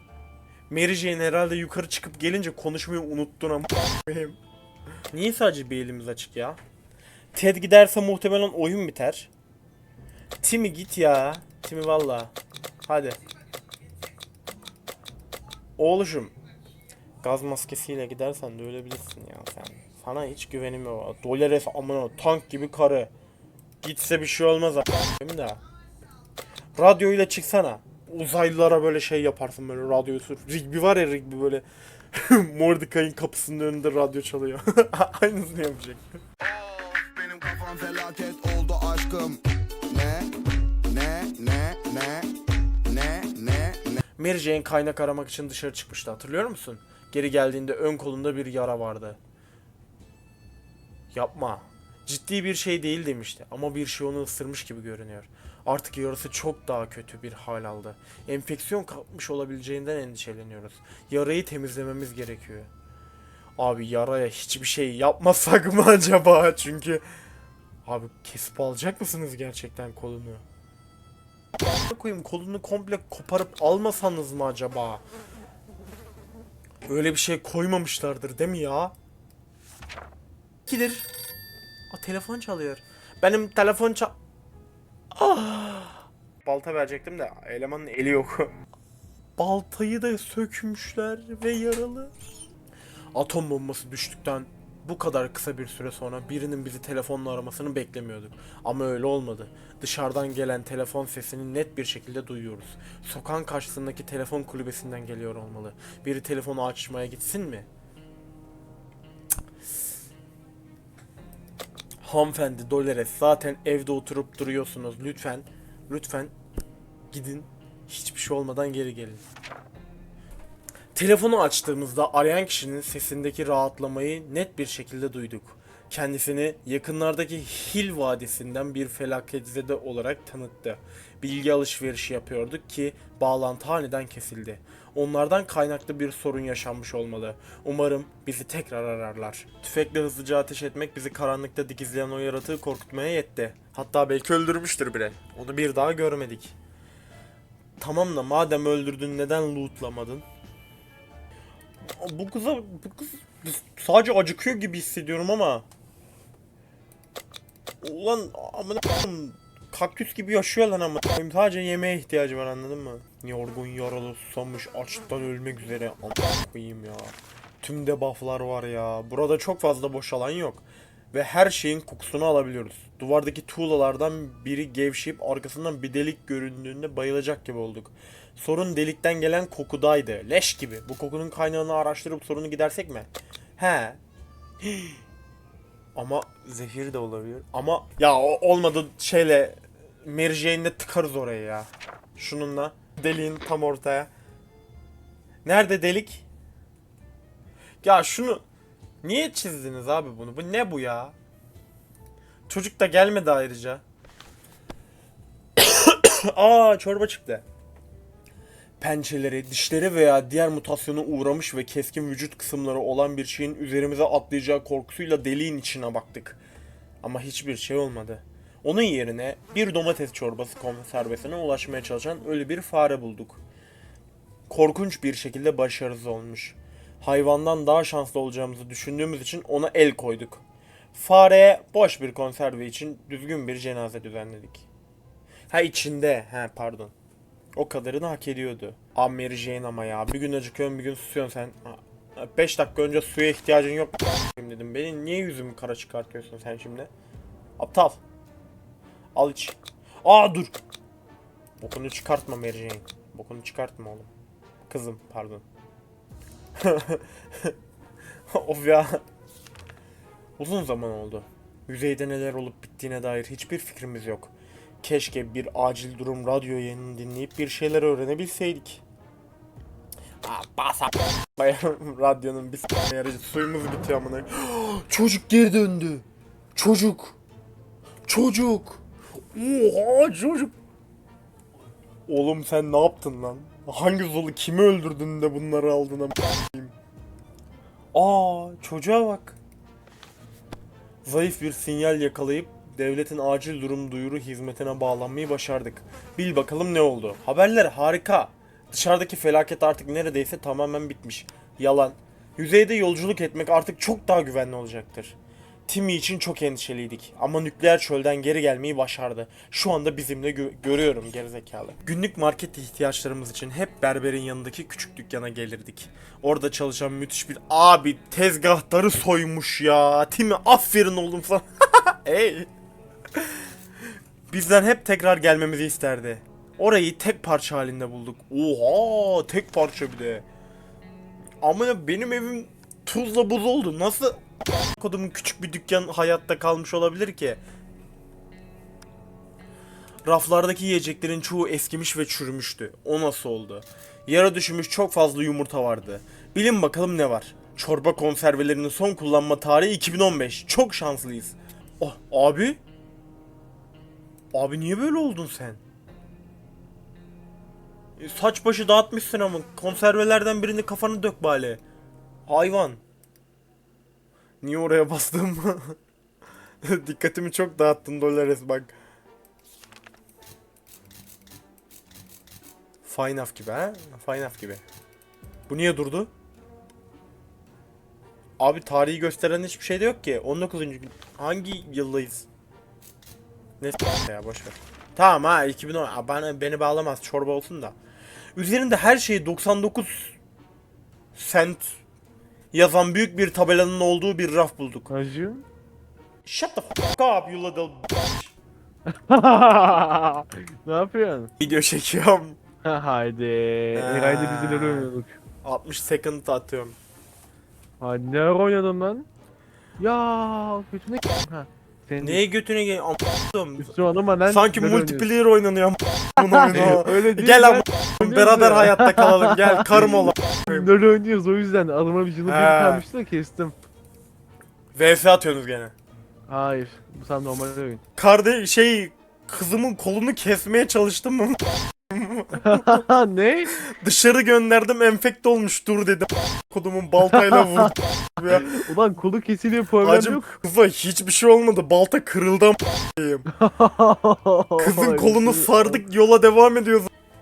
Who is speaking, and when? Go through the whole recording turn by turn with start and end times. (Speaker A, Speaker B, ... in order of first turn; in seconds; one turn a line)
Speaker A: 0.7-4.4
Speaker A: 5.1-6.6
Speaker A: 7.3-9.3
Speaker A: 10.4-13.2
Speaker A: 15.8-16.3
Speaker A: 17.2-23.1
Speaker A: 23.8-25.6
Speaker A: 26.8-36.1
Speaker B: 36.4-40.3
Speaker B: 40.9-42.3
Speaker B: 42.9-44.0
Speaker A: 44.2-49.2
Speaker A: 51.1-62.7
Speaker A: 63.6-67.1
Speaker A: 67.8-70.4
Speaker A: 71.9-75.0
Speaker A: 76.9-79.0
Speaker A: 80.7-81.1
Speaker A: 81.9-84.2
Speaker A: 85.1-88.5
Speaker A: 89.4-92.1
Speaker A: 93.1-107.7
Speaker A: 112.0-116.3
Speaker A: 117.1-119.2
Speaker A: 120.9-146.5
Speaker A: 147.8-150.3
Speaker A: 151.8-155.7
Speaker A: 157.8-184.0
Speaker A: 184.6-185.0
Speaker A: 185.9-194.1
Speaker A: 195.4-196.2
Speaker A: 197.8-198.4
Speaker A: 199.0-201.2
Speaker A: 202.5-203.8
Speaker A: 205.6-207.4
Speaker A: 208.8-216.4
Speaker A: 217.0-223.4
Speaker A: 224.5-230.4
Speaker A: 230.9-234.7
Speaker A: 235.5-236.9
Speaker A: 237.6-246.9
Speaker A: 247.6-248.0
Speaker A: 249.2-250.6
Speaker A: 251.6-254.1
Speaker A: 254.7-255.4
Speaker A: 256.6-257.6
Speaker A: 258.3-259.0
Speaker A: 260.4-264.3
Speaker A: 264.8-268.8
Speaker A: 270.2-277.2
Speaker A: 278.1-280.5
Speaker A: 282.1-286.8
Speaker A: 287.9-289.4
Speaker A: 291.1-305.2
Speaker A: 305.7-322.5
Speaker A: 323.1-323.4
Speaker A: 324.3-330.3
Speaker A: 331.4-334.2
Speaker A: 334.8-337.4
Speaker A: 340.1-352.6
Speaker A: 354.3-355.6
Speaker A: 358.0-361.6
Speaker A: 362.3-362.8
Speaker A: 364.4-365.8
Speaker A: 366.6-368.7
Speaker A: 372.9-374.6
Speaker A: 375.5-376.1
Speaker A: 378.4-382.3
Speaker A: 383.6-387.8
Speaker A: 388.4-390.2
Speaker A: 391.1-391.8
Speaker A: 392.5-394.9
Speaker C: 394.9-395.5
Speaker A: 396.2-398.3
Speaker C: 398.9-401.3
Speaker A: 401.4-402.4
Speaker C: 402.6-405.2
Speaker A: 403.8-404.9
Speaker A: 405.4-406.8
Speaker C: 407.8-409.1
Speaker C: 409.8-412.2
Speaker A: 412.0-413.7
Speaker C: 413.6-415.1
Speaker A: 414.3-420.7
Speaker C: 416.2-423.6
Speaker A: 422.3-422.9
Speaker A: 424.8-425.7
Speaker C: 426.3-427.8
Speaker A: 428.0-432.8
Speaker C: 432.4-433.6
Speaker A: 433.6-438.6
Speaker C: 437.0-440.4
Speaker A: 439.8-443.3
Speaker C: 443.3-445.8
Speaker A: 444.6-446.9